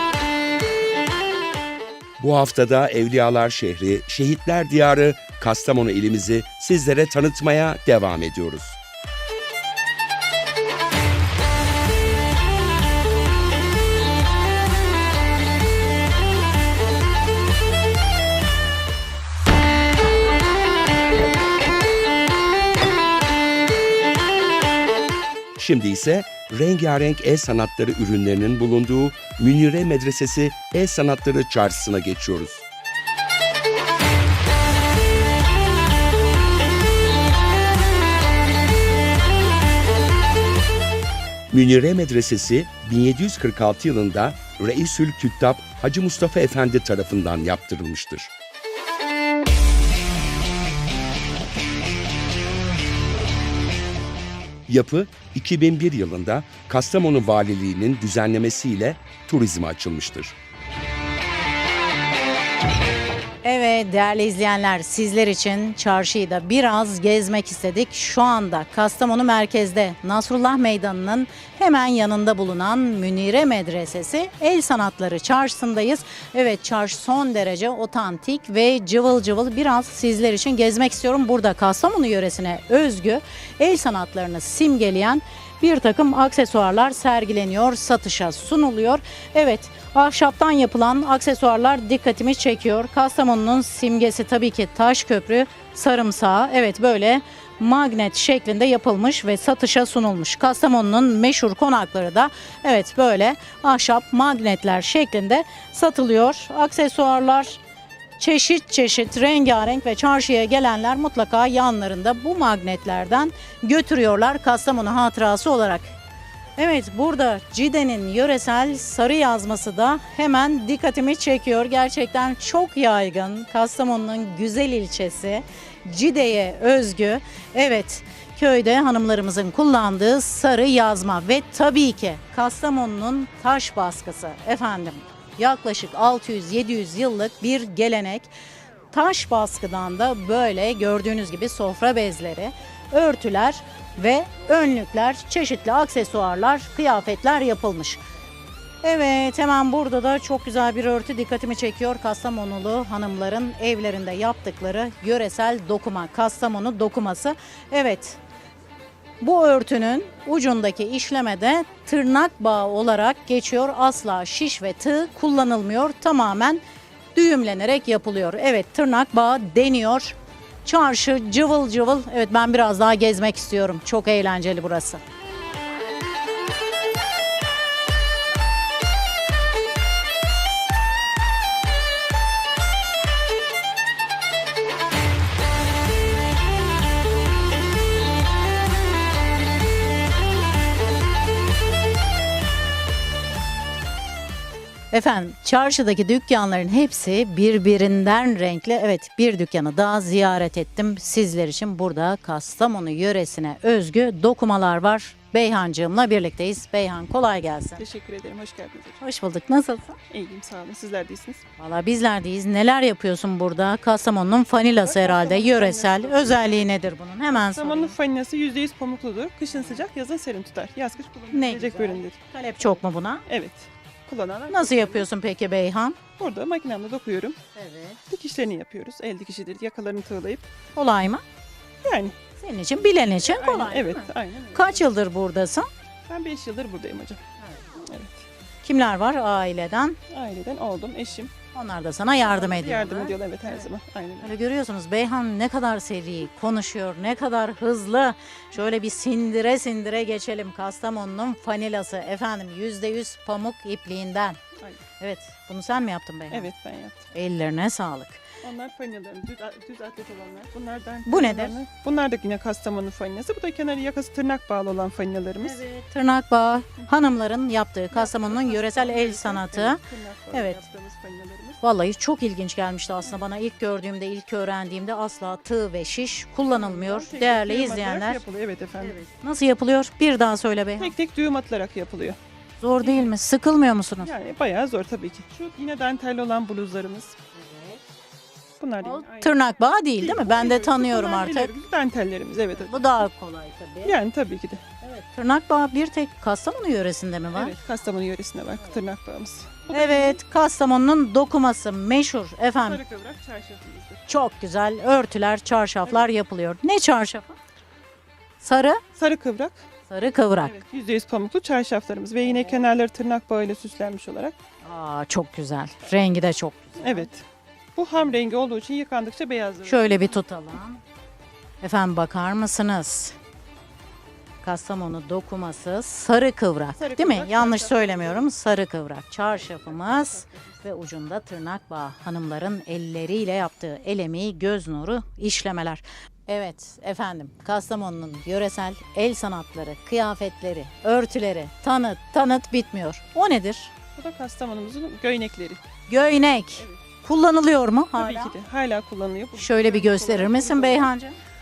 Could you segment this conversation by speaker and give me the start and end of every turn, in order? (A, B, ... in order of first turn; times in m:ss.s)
0:02.2-0:08.8 A
0:25.6-0:32.6 A
0:41.5-0:48.3 A
0:54.7-1:00.4 A
1:03.4-1:47.6 B
1:48.2-1:55.9 B
1:56.6-2:18.3 B
2:18.9-2:28.0 B
2:28.8-2:38.2 B
2:39.2-2:46.6 B
2:47.2-2:55.0 B
3:14.9-3:27.8 B
3:27.8-3:29.0 C
3:29.0-3:30.0 B
3:30.1-3:31.4 C
3:31.6-3:37.9 B
3:34.8-3:36.7 C
3:37.3-3:45.1 C
3:41.3-3:43.2 B
3:44.5-3:46.0 B
3:46.2-3:47.4 C
3:47.6-3:48.0 B
3:48.1-3:50.5 C
3:50.8-3:51.2 B
3:51.8-3:52.2 C
3:52.4-3:55.7 B
3:53.2-3:54.8 C
3:56.1-3:57.2 C
3:57.8-3:58.2 C
3:58.6-4:00.0 B
4:00.1-4:01.3 C
4:01.5-4:03.6 B
4:02.2-4:04.3 C
4:04.2-4:14.4 B
4:15.0-4:16.5 B
4:16.3-4:17.0 C
4:17.1-4:18.2 B
4:18.4-4:25.6 C
4:21.1-4:21.6 B
4:25.4-4:30.6 B
4:27.9-4:31.6 C
4:31.6-4:38.2 B
4:36.5-4:39.0 C
4:38.8-4:41.0 B
4:40.8-4:42.2 C
4:42.6-4:44.1 B
4:44.0-4:47.2 C
4:47.4-4:47.8 B
4:48.6-4:49.4 C
4:48.8-4:51.5 B
4:50.0-4:52.8 C
4:52.6-4:54.0 B
4:53.8-4:54.6 C
4:54.8-4:57.6 B
4:57.3-5:00.2 C
4:59.7-5:02.8 B
5:02.7-5:04.1 C
5:04.1-5:07.4 B
5:08.4-5:08.8 B
5:09.0-5:09.6 C
5:09.9-5:10.6 B
5:10.4-5:14.4 C
5:12.3-5:12.6 B
5:14.6-5:17.1 B
5:16.8-5:17.2 C
5:17.8-5:20.2 C
5:19.7-5:20.8 B
5:21.6-5:23.2 B
5:24.4-5:43.7 B
5:26.8-5:28.3 C
5:29.4-5:30.6 C
5:44.0-5:45.6 C
5:45.9-5:48.4 B
5:46.6-5:46.8 C
5:48.0-5:50.9 C
5:49.4-5:51.2 B